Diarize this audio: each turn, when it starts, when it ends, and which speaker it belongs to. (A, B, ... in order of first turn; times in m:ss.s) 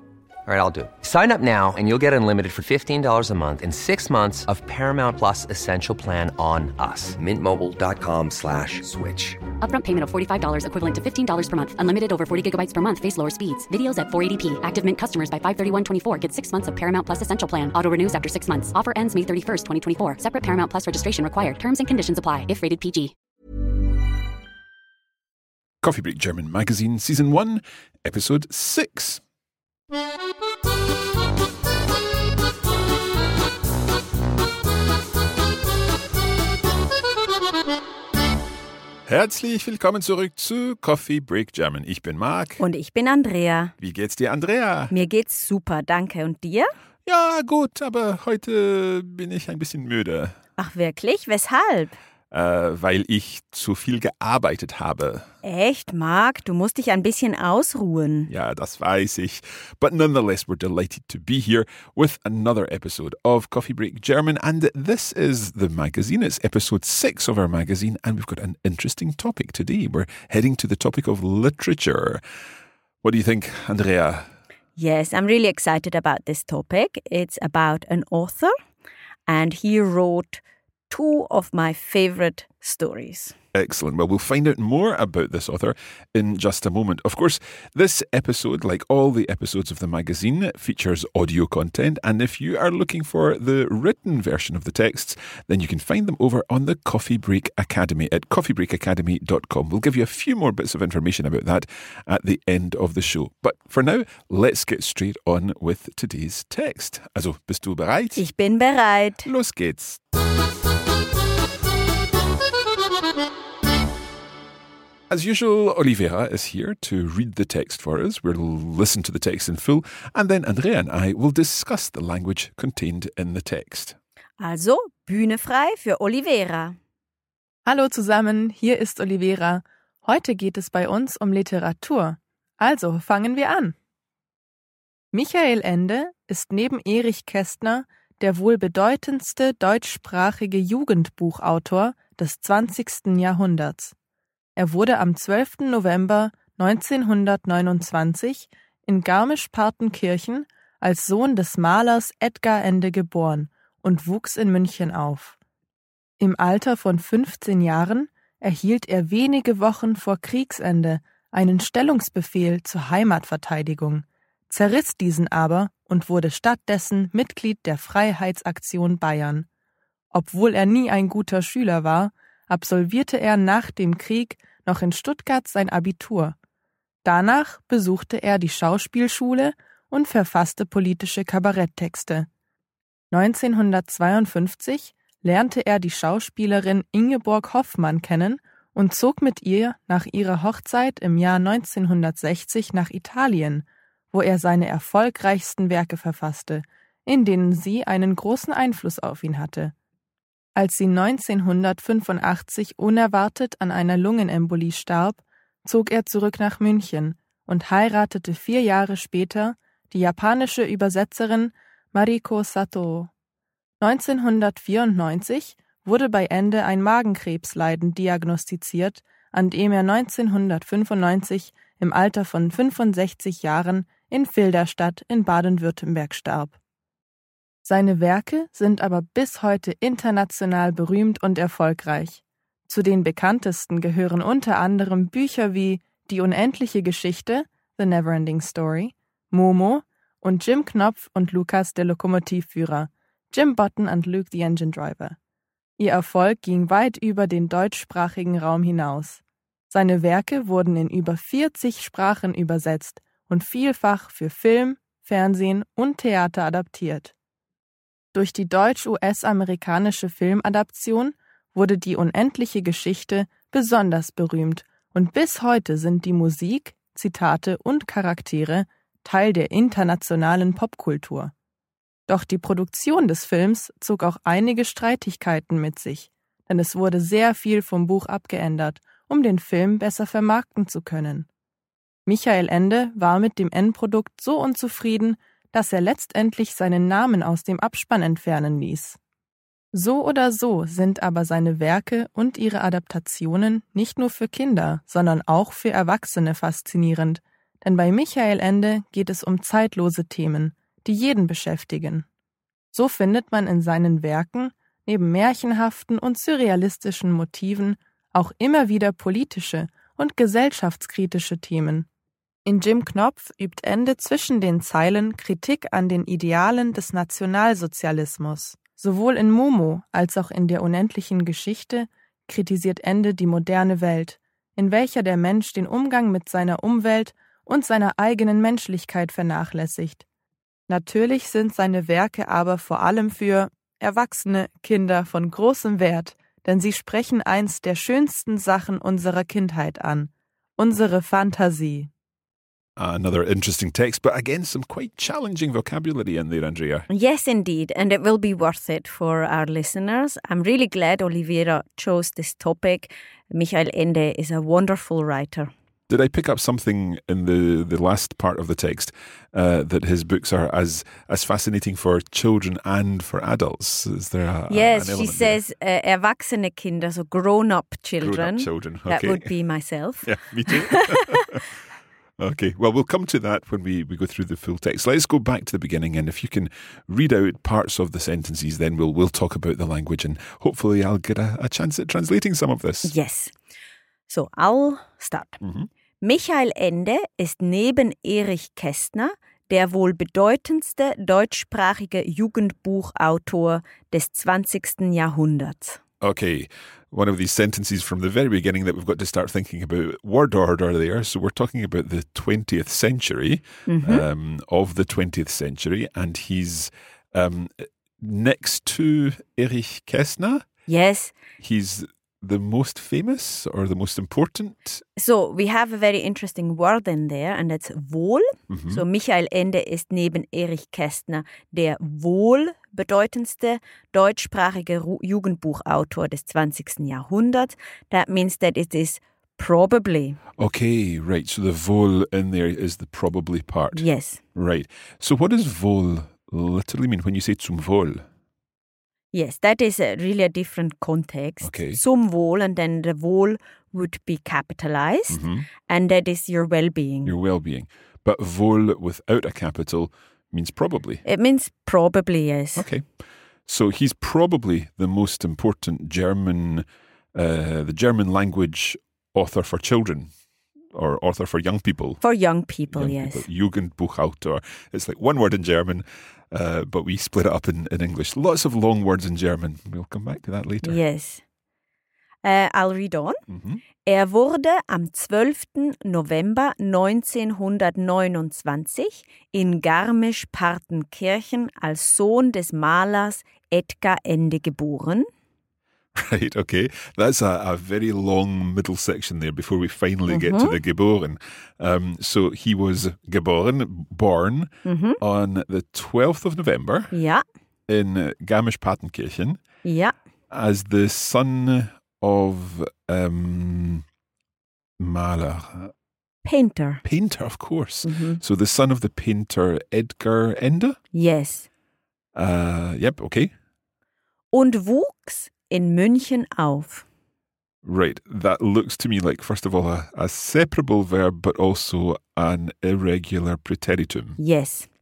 0:00.5-0:09.4 A
0:09.6-0:23.1 B
0:25.8-0:29.2 C
0:39.1-0:42.6 C
0:42.6-0:43.7 D
0:43.8-0:44.9 C
0:44.9-0:46.7 D
0:47.1-0:50.4 C
0:50.6-0:52.0 D
0:52.3-0:55.3 C
0:55.4-0:58.3 D
0:58.3-1:12.2 C
1:13.0-1:14.3 C
1:14.8-1:18.5 D
1:19.3-1:23.4 D
1:23.5-1:48.2 C
1:48.2-1:49.3 D
1:49.2-1:50.0 C
1:55.1-2:04.0 C
2:04.4-2:06.8 D
2:07.7-2:13.8 E
2:15.1-2:23.9 E
2:24.6-2:35.4 E
2:36.2-2:49.5 E
2:50.1-2:56.4 E
2:57.0-3:02.3 E
3:03.1-3:19.7 E
3:20.6-3:33.1 E
3:33.8-3:46.5 E
3:47.7-4:05.2 E
4:05.8-4:17.1 E
4:18.1-4:31.3 E
4:32.1-4:41.3 E
4:42.1-4:49.0 E
4:49.7-5:02.1 E
5:02.7-5:11.9 E
5:12.5-5:30.0 E
5:30.7-5:41.9 E
5:42.8-5:46.9 C
5:46.9-5:55.5 D
5:55.9-6:05.4 C
6:04.5-6:11.2 D
6:08.0-6:09.3 C
6:10.0-6:11.5 C
6:12.2-6:22.9 C
6:22.8-6:23.4 D
6:24.1-6:25.4 D
6:25.4-6:25.7 C
6:26.0-6:35.8 D
6:36.0-6:50.5 C
6:43.7-6:44.0 D
6:50.7-6:51.1 D
6:51.4-6:54.8 C
6:55.0-7:10.2 D
6:58.5-6:58.8 C
7:10.4-7:18.0 C
7:13.8-7:14.2 D
7:19.1-7:27.1 D
7:21.4-7:21.8 C
7:25.1-7:25.5 C
7:27.0-7:31.0 C
7:31.0-7:32.7 D
7:32.6-7:40.1 C
7:40.7-7:42.0 C
7:42.0-7:43.3 D
7:42.7-7:50.8 C
7:50.6-7:51.2 D
7:52.2-7:53.2 D
7:53.3-7:53.6 C
7:53.8-8:05.1 D
8:06.0-8:16.9 C
8:10.1-8:10.6 D
8:14.6-8:15.0 D
8:16.9-8:17.2 D
8:17.7-8:19.4 C
8:19.6-8:20.0 D
8:20.3-8:23.8 C
8:24.8-8:25.7 C
8:26.2-8:26.8 D
8:26.8-8:30.8 C
8:27.8-8:28.2 D
8:30.9-8:31.5 D
8:32.1-8:33.3 C
8:34.3-8:36.9 D
8:37.6-8:44.2 C
8:44.2-8:44.7 D